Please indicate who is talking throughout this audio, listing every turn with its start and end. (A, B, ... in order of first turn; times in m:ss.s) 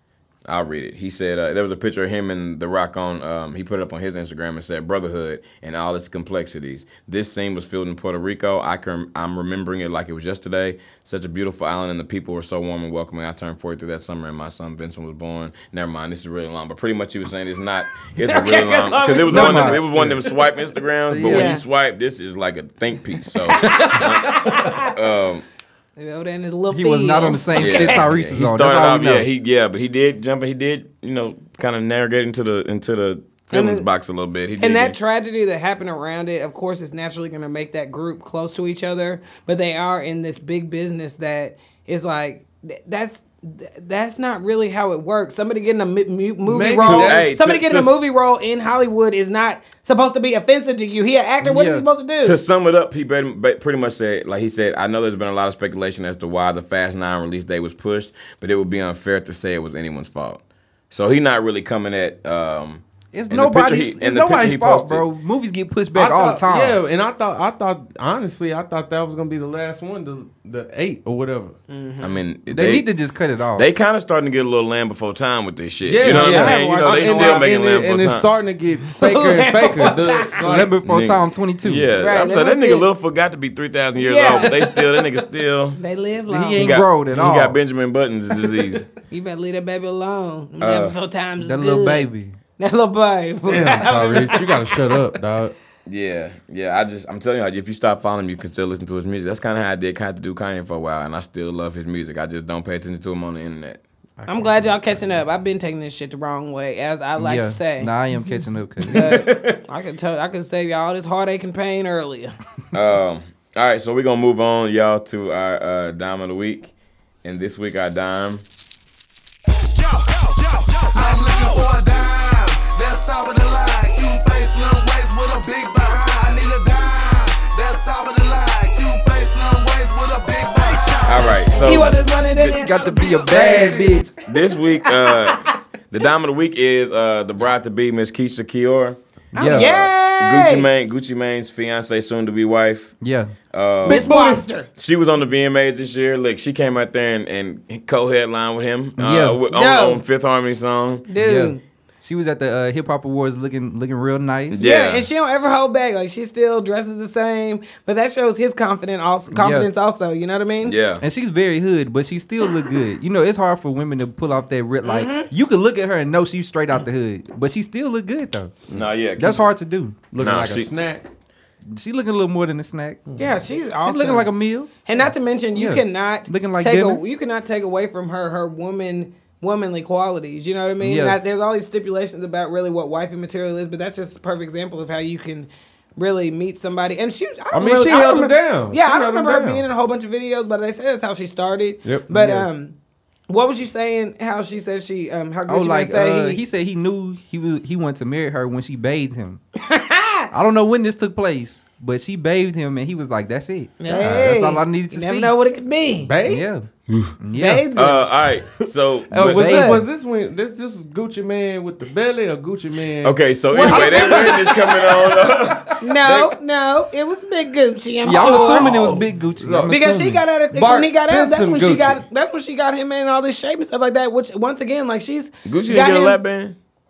0:00.5-0:25.4 A
0:18.2-0:19.8 B
0:19.2-0:20.2 C
0:21.1-0:21.5 C
0:21.2-0:21.6 B
0:23.5-0:24.9 B
0:26.0-0:28.0 B
0:26.7-0:29.3 C
0:27.6-0:35.0 A
0:33.5-0:33.8 B
0:34.6-0:52.4 B
0:46.4-0:47.3 D
0:46.8-0:47.9 A
0:51.4-0:51.8 C
0:52.2-1:05.0 A
1:03.1-1:06.8 C
1:05.9-1:11.6 D
1:11.7-1:12.2 B
1:12.0-1:12.9 A
1:12.5-1:13.6 C
1:13.5-1:18.3 A
1:15.8-1:20.7 D
1:16.0-1:17.5 B
1:16.0-1:16.5 C
1:19.0-1:20.4 B
1:20.4-1:21.9 C
1:20.8-1:25.8 A
1:22.0-1:22.9 B
1:24.0-1:25.2 B
1:25.8-1:26.7 B
1:26.3-1:27.6 C
1:26.6-1:28.8 A
1:29.1-1:32.1 B
1:30.6-1:31.0 A
1:31.4-1:32.4 C
1:32.6-1:34.8 B
1:33.5-1:35.5 D
1:35.8-1:43.8 A
1:44.2-1:45.0 D
1:44.3-1:47.9 B
1:47.2-1:49.2 C
1:48.9-1:49.6 A
1:48.9-1:52.3 B
1:52.7-1:56.7 A
1:57.2-1:58.4 A
1:59.8-2:12.0 E
2:11.0-2:12.0 A
2:11.5-2:13.0 B
2:12.4-2:14.1 C
2:12.5-2:13.9 E
2:13.3-2:14.0 D
2:14.2-2:22.9 A
2:15.1-2:15.5 B
2:19.3-2:19.7 C
2:19.3-2:20.7 B
2:23.0-2:23.3 C
2:23.5-2:24.1 A
2:23.8-2:24.4 D
2:23.8-2:24.7 B
2:24.8-2:31.0 A
2:29.0-2:29.4 C
2:29.5-2:30.0 B
2:31.1-2:31.6 B
2:31.2-2:34.6 C
2:34.5-2:35.1 A
2:34.6-2:40.8 B
2:39.3-2:39.7 C
2:40.6-2:41.0 A
2:41.0-2:50.1 C
2:44.8-2:45.3 B
2:48.7-2:49.4 A
2:50.1-2:51.1 D
2:50.2-2:50.7 A
2:51.7-2:53.0 C
2:53.2-3:12.7 B
2:53.8-2:54.7 C
2:55.5-2:57.0 C
3:00.8-3:01.2 C
3:07.5-3:09.6 D
3:11.8-3:12.5 D
3:13.3-3:16.4 B
3:15.5-3:19.4 C
3:19.6-3:20.3 B
3:20.3-3:25.3 C
3:23.8-3:26.1 B
3:23.9-3:24.2 D
3:26.0-3:26.4 D
3:26.2-3:26.6 C
3:26.9-3:27.1 A
3:27.2-3:27.7 C
3:27.4-3:28.0 B
3:27.7-3:29.5 A
3:29.1-3:29.8 C
3:29.1-3:33.2 D
3:29.4-3:29.8 B
3:33.0-3:36.4 A
3:33.5-3:34.8 B
3:33.6-3:34.1 C
3:33.7-3:34.5 D
3:35.8-3:39.0 B
3:38.0-3:39.9 C
3:38.1-3:42.0 D
3:39.7-3:46.2 B
3:45.4-3:46.6 A